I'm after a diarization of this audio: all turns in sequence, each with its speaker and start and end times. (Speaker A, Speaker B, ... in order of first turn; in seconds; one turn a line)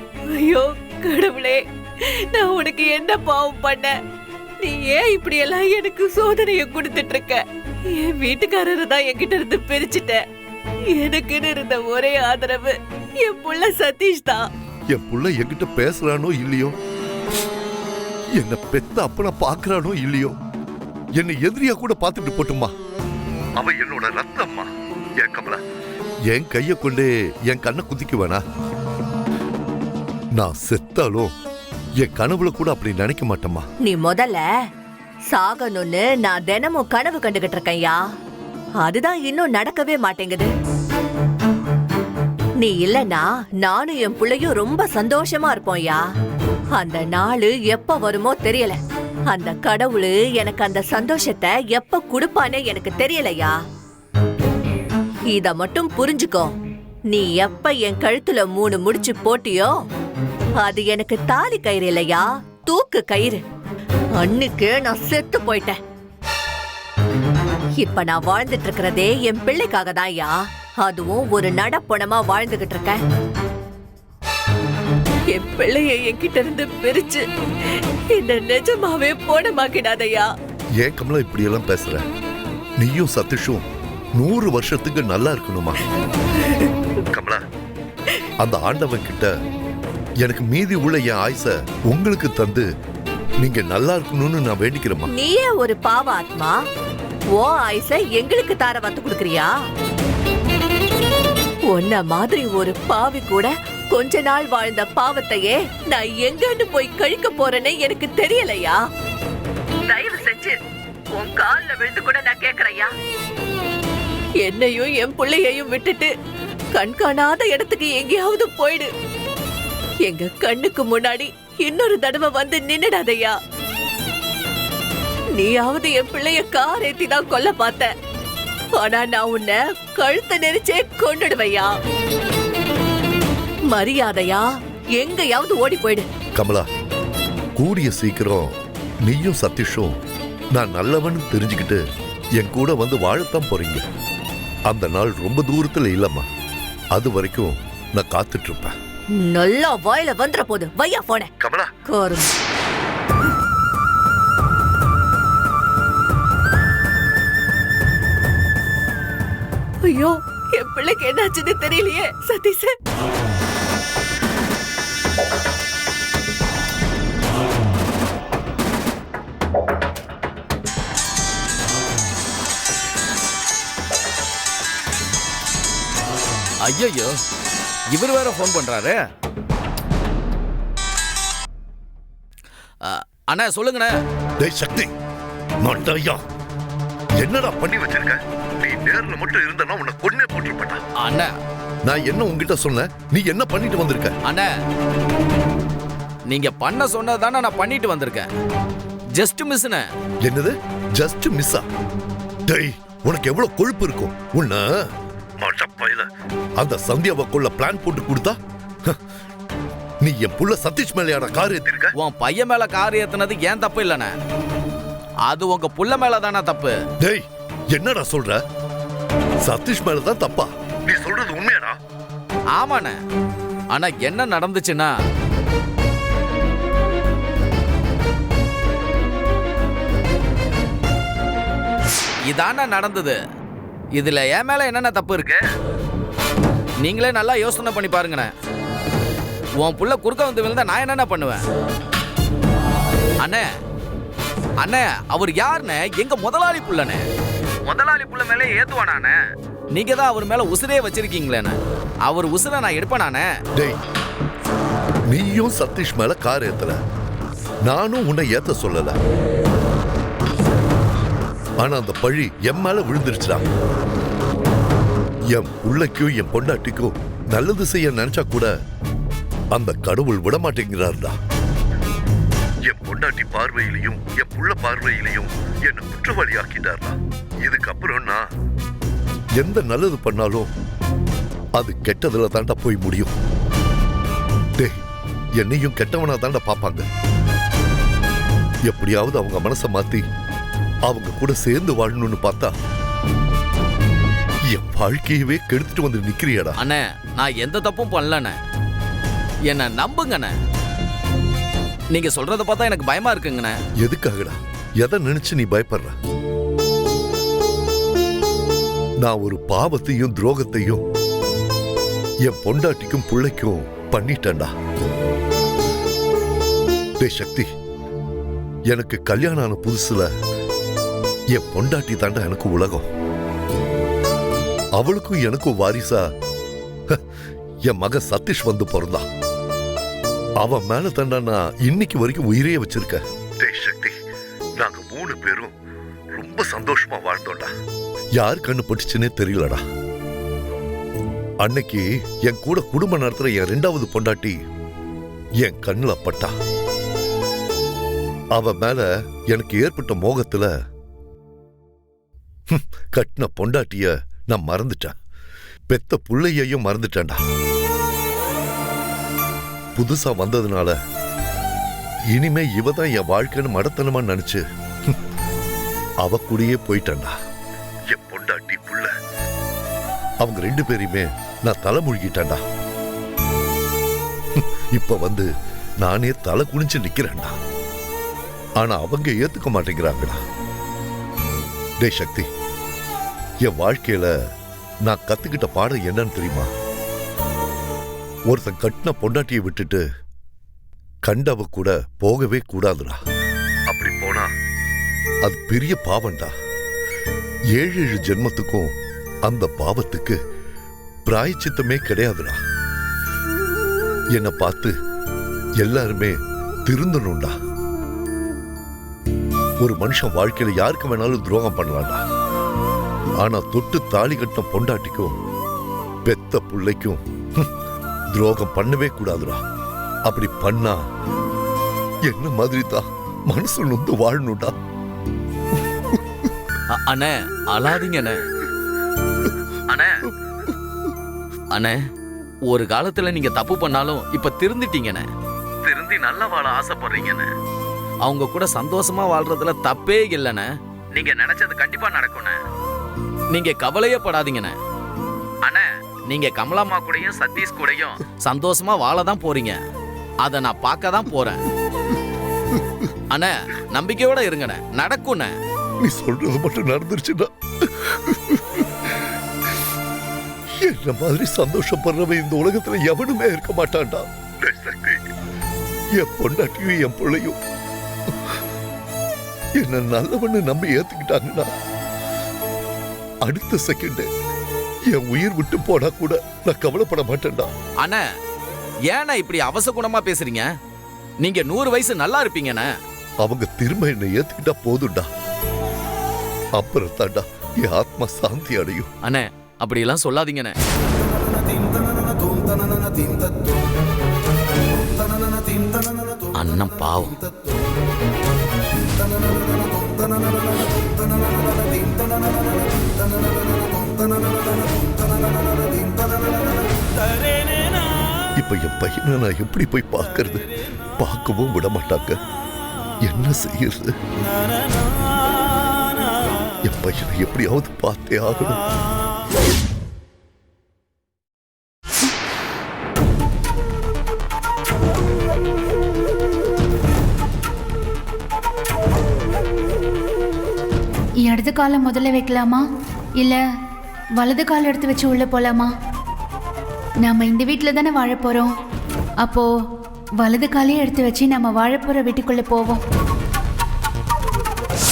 Speaker A: 0.3-3.9
Speaker A: 4.6-10.2
Speaker A: 10.9-14.5
Speaker B: 14.9-16.7
Speaker B: 18.4-20.3
Speaker B: 21.1-22.7
Speaker B: 23.6-25.6
Speaker B: 26.3-28.4
Speaker B: 30.4-31.3
Speaker B: 32.0-33.7
Speaker A: 33.8-34.4
Speaker A: 35.3-38.0
Speaker A: 38.8-40.5
Speaker A: 42.6-46.0
Speaker A: 46.7-53.6
Speaker A: 55.3-56.5
Speaker A: 57.1-59.7
Speaker A: 60.6-63.4
Speaker A: 64.2-65.8
Speaker A: 67.8-73.0
Speaker A: 75.3-80.3
Speaker B: 80.8-82.0
Speaker B: 82.8-83.6
Speaker B: 84.2-85.8
Speaker B: 87.1-87.4
Speaker B: 88.4-89.3
Speaker B: 90.2-92.7
Speaker B: 93.4-95.1
Speaker A: 95.1-96.6
Speaker A: 97.3-99.5
Speaker A: 101.7-108.8
Speaker A: 109.9-110.5
Speaker A: 111.1-112.9
Speaker A: 114.4-116.1
Speaker A: 116.7-118.9
Speaker A: 120.0-123.4
Speaker A: 125.3-127.9
Speaker A: 128.7-131.7
Speaker A: 133.7-136.1
Speaker B: 136.3-136.7
Speaker B: 137.6-139.9
Speaker B: 140.5-141.8
Speaker B: 142.4-143.8
Speaker B: 144.7-146.3
Speaker B: 146.9-148.7
Speaker A: 149.1-151.3
Speaker B: 151.4-151.8
Speaker A: 151.9-152.3
Speaker A: 159.8-162.7
Speaker C: 176.6-177.1
Speaker C: 177.9-179.0
Speaker C: 182.8-183.9
Speaker B: 184.4-184.9
Speaker B: 185.6-186.2
Speaker B: 187.2-190.8
Speaker C: 191.0-191.3
Speaker B: 191.8-194.1
Speaker C: 196.3-198.3
Speaker C: 199.2-199.8
Speaker B: 200.2-201.6
Speaker B: 202.5-204.8
Speaker B: 205.4-206.1
Speaker B: 206.6-208.3
Speaker B: 210.0-211.9
Speaker C: 212.0-214.1
Speaker C: 215.3-216.7
Speaker B: 217.0-218.4
Speaker B: 219.4-221.8
Speaker C: 222.5-222.9
Speaker C: 223.7-224.9
Speaker C: 232.3-233.2
Speaker C: 234.0-235.4
Speaker C: 236.8-238.3
Speaker C: 239.6-241.4
Speaker C: 243.2-243.5
Speaker C: 244.6-247.0
Speaker C: 247.7-249.2
Speaker C: 249.7-253.3
Speaker B: 255.1-256.8
Speaker B: 257.6-259.0
Speaker B: 261.6-263.4
Speaker B: 265.3-268.5
Speaker B: 269.5-271.1
Speaker B: 272.6-278.3
Speaker B: 279.4-280.5
Speaker B: 281.6-283.1
Speaker B: 285.4-286.9
Speaker B: 288.6-290.0
Speaker B: 290.9-292.5
Speaker B: 294.5-296.6
Speaker C: 296.6-298.3
Speaker C: 299.5-300.3
Speaker C: 301.9-303.5
Speaker B: 303.8-305.9
Speaker B: 309.0-310.8
Speaker B: 312.2-314.5
Speaker B: 317.0-317.5
Speaker B: 318.7-320.1
Speaker B: 321.3-322.9
Speaker B: 324.8-326.0
Speaker B: 327.6-329.0
Speaker B: 330.4-333.9
Speaker B: 334.6-335.5
Speaker B: 336.1-337.5
Speaker B: 338.2-339.6
Speaker B: 341.4-344.4
Speaker B: 345.4-346.3
Speaker B: 348.3-350.5
Speaker B: 352.5-354.9
Speaker B: 355.7-357.2
Speaker B: 359.8-360.8
Speaker B: 362.1-364.9
Speaker B: 366.0-367.1
Speaker B: 367.9-368.9
Speaker B: 370.2-372.4
Speaker B: 374.3-375.3
Speaker B: 375.8-377.4
Speaker B: 378.6-380.2
Speaker B: 381.8-382.3
Speaker B: 383.4-384.1
Speaker B: 384.8-386.5
Speaker B: 388.3-389.8
Speaker B: 391.0-393.0
Speaker B: 393.7-394.3
Speaker B: 395.2-396.3
Speaker B: 397.5-398.7
Speaker B: 399.2-400.2
Speaker B: 401.1-402.4
Speaker B: 404.1-404.7
Speaker B: 405.6-407.3
Speaker B: 409.6-412.0
Speaker B: 413.2-415.1
Speaker B: 416.1-417.5
Speaker B: 418.1-419.4
Speaker B: 420.0-420.8
Speaker B: 422.1-424.5
Speaker C: 426.7-428.2
Speaker C: 432.5-435.1
Speaker C: 435.6-437.3
Speaker C: 438.0-442.4
Speaker C: 443.3-444.5
Speaker C: 445.4-449.6
Speaker C: 450.2-451.4
Speaker C: 453.1-455.3
Speaker B: 455.8-458.7
Speaker B: 460.6-465.0
Speaker B: 465.9-467.4
Speaker B: 469.6-471.5
Speaker B: 473.2-474.1
Speaker B: 474.9-477.5
Speaker C: 478.9-480.5
Speaker C: 481.2-482.7
Speaker B: 483.2-485.1
Speaker B: 486.6-488.9
Speaker C: 489.0-490.5
Speaker C: 496.4-497.2
Speaker B: 508.4-512.2
Speaker B: 513.0-513.9
Speaker B: 516.6-518.6
Speaker D: 531.2-532.6
Speaker D: 533.2-533.4
Speaker D: 534.2-535.7
Speaker D: 537.0-538.5
Speaker D: 539.2-539.5
Speaker D: 540.2-542.8